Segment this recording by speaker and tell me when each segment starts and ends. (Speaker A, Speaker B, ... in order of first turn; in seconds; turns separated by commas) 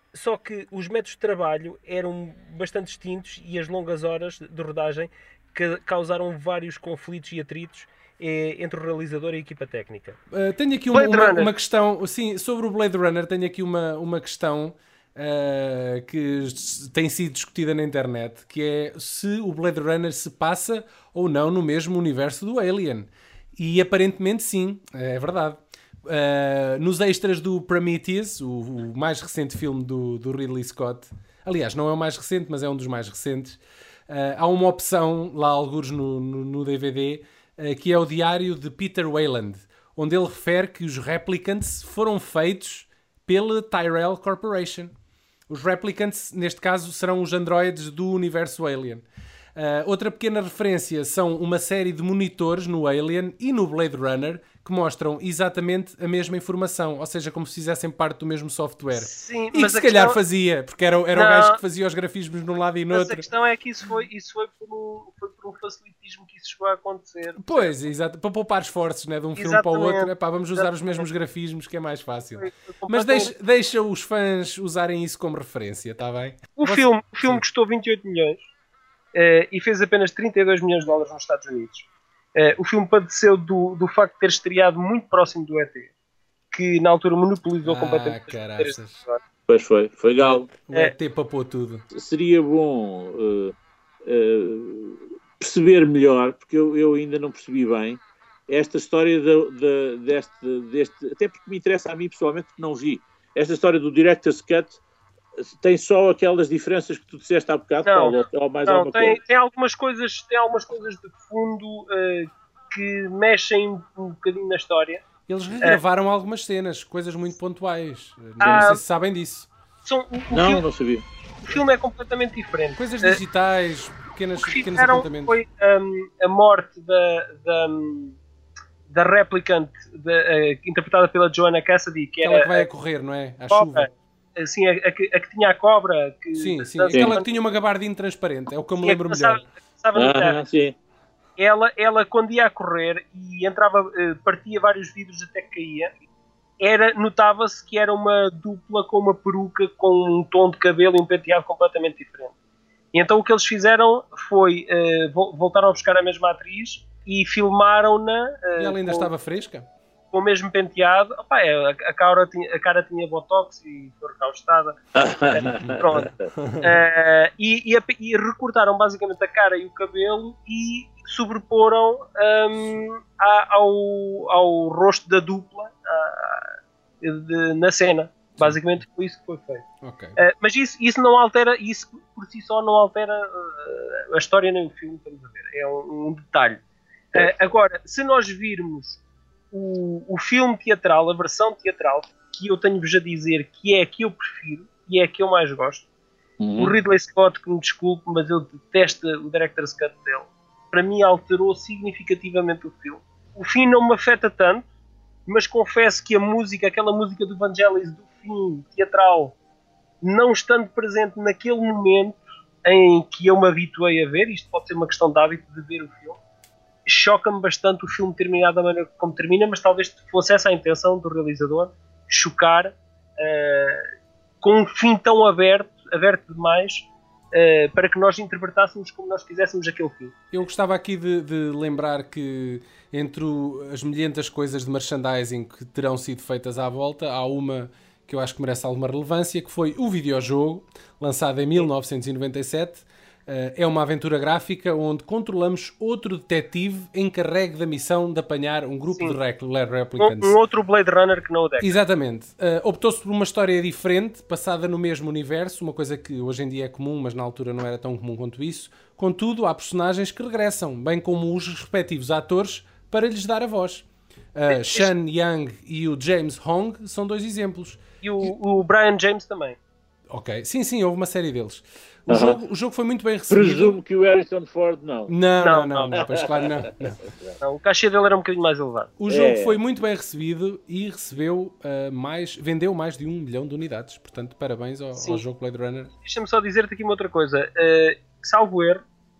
Speaker A: 0.1-10.2, Speaker B: 10.3-44.9, Speaker A: 10.9-11.5, Speaker B: 45.5-49.0, Speaker B: 49.6-63.3, Speaker A: 58.9-60.2, Speaker A: 61.1-61.6, Speaker A: 62.9-67.7, Speaker B: 67.4-77.4, Speaker A: 69.4-71.1, Speaker A: 72.4-73.3, Speaker A: 76.6-78.4, Speaker A: 79.1-85.9, Speaker A: 86.5-89.2, Speaker B: 87.6-89.0, Speaker C: 89.5-90.5, Speaker B: 90.2-91.8, Speaker C: 91.9-104.8, Speaker C: 105.6-109.2, Speaker A: 107.8-115.0, Speaker B: 115.3-119.5, Speaker C: 118.4-118.7, Speaker A: 118.4-118.8, Speaker A: 119.8-120.7, Speaker C: 120.3-121.1, Speaker A: 121.5-123.2, Speaker B: 122.8-125.4, Speaker A: 124.4-128.2, Speaker A: 128.9-132.7, Speaker B: 132.2-133.9, Speaker A: 133.5-137.3, Speaker B: 136.4-139.4, Speaker C: 136.9-137.2, Speaker A: 138.8-140.4, Speaker C: 139.9-140.8, Speaker A: 141.4-145.9, Speaker A: 146.6-152.3, Speaker A: 152.9-159.1, Speaker B: 158.6-159.7, Speaker A: 160.1-179.6, Speaker C: 164.9-166.3, Speaker B: 166.4-166.7, Speaker B: 179.8-180.2, Speaker A: 180.2-186.6, Speaker A: 187.1-189.0, Speaker A: 189.5-195.8, Speaker C: 196.4-196.7, Speaker A: 196.6-204.7, Speaker A: 205.3-209.3, Speaker A: 210.0-216.2, Speaker A: 216.9-223.9, Speaker A: 224.4-230.2, Speaker B: 230.3-250.4, Speaker A: 250.0-251.7, Speaker B: 251.6-267.8, Speaker A: 264.5-264.9, Speaker A: 268.0-269.6, Speaker B: 270.1-273.8, Speaker C: 272.1-272.4, Speaker C: 273.3-275.1, Speaker B: 275.1-277.0, Speaker A: 275.4-276.0, Speaker C: 276.0-277.4, Speaker A: 277.4-278.9, Speaker B: 279.0-285.9, Speaker C: 279.1-279.6, Speaker A: 284.9-285.2, Speaker A: 286.0-288.8